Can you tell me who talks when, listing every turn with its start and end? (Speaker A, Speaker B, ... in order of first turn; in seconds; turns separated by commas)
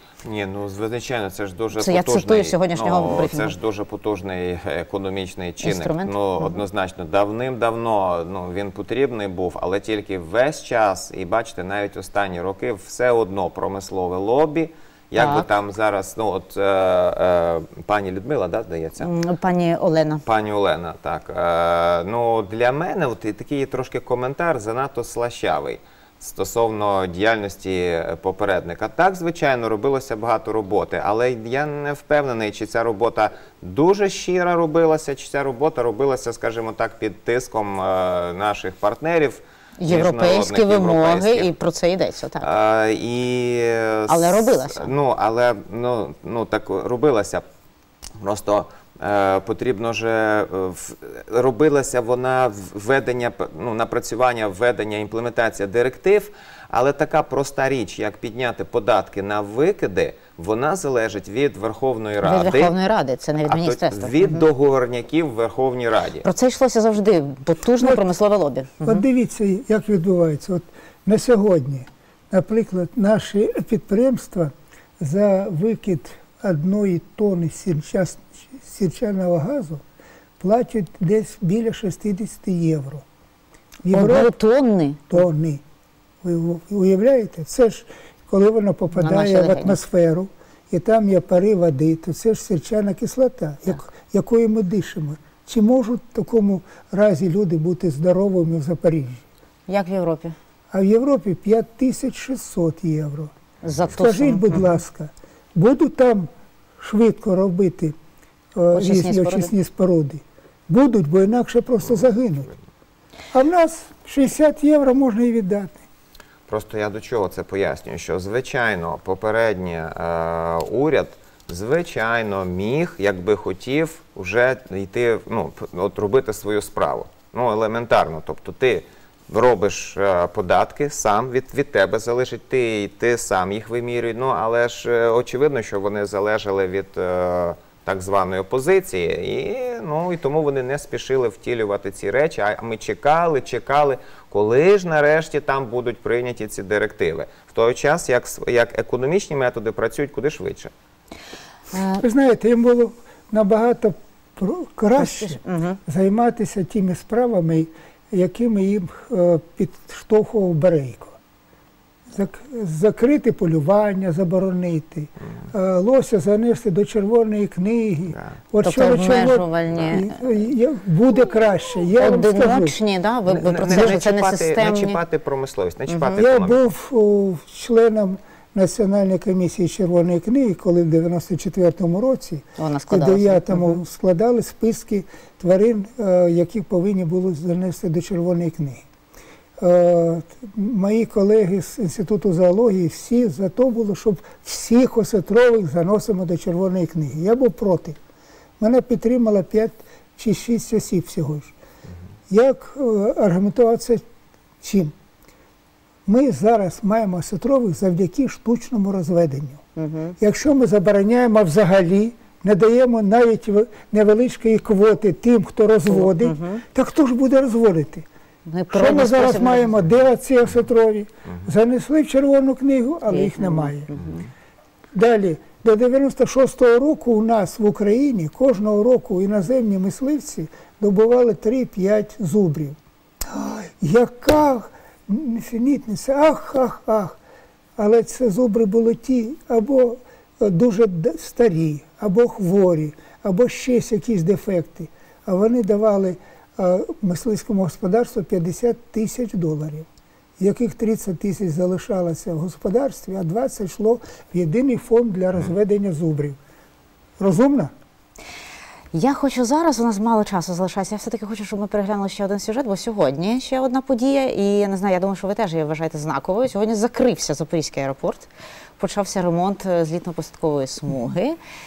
Speaker A: 0.2-19.1, Speaker B: 1.8-3.5, Speaker B: 5.6-6.6, Speaker B: 15.2-15.5, Speaker B: 19.0-20.2, Speaker A: 20.2-41.5, Speaker B: 39.8-42.5, Speaker A: 42.4-47.5, Speaker B: 44.1-44.9, Speaker A: 48.2-62.7, Speaker B: 62.2-64.4, Speaker A: 63.5-66.2, Speaker B: 66.2-69.0, Speaker C: 67.8-68.0, Speaker C: 68.8-79.8, Speaker C: 80.4-83.0, Speaker C: 83.8-84.3, Speaker B: 83.9-85.2, Speaker C: 85.1-85.6, Speaker C: 86.2-99.2, Speaker B: 88.9-89.8, Speaker B: 99.7-100.4, Speaker C: 100.7-103.3, Speaker B: 103.7-104.7, Speaker C: 103.9-108.0, Speaker C: 108.5-112.5, Speaker B: 108.7-109.5, Speaker A: 111.8-112.1, Speaker C: 113.3-115.9, Speaker A: 116.5-150.7, Speaker B: 151.7-152.0, Speaker C: 152.0-161.2, Speaker B: 155.0-155.8, Speaker C: 162.1-172.8, Speaker A: 168.1-168.4, Speaker B: 168.6-170.2, Speaker B: 172.0-175.0, Speaker A: 173.3-176.7, Speaker C: 176.1-188.8, Speaker B: 182.6-183.8, Speaker C: 189.6-198.0, Speaker C: 198.6-201.5, Speaker C: 202.3-204.0, Speaker C: 204.6-204.9, Speaker C: 206.1-209.6, Speaker B: 209.8-210.2, Speaker C: 210.2-218.1, Speaker B: 215.9-216.6, Speaker B: 218.5-219.8, Speaker C: 218.7-223.9, Speaker B: 223.1-224.2, Speaker C: 224.9-237.2, Speaker C: 237.8-249.9, Speaker C: 250.4-256.4, Speaker C: 257.2-257.7, Speaker B: 258.9-271.4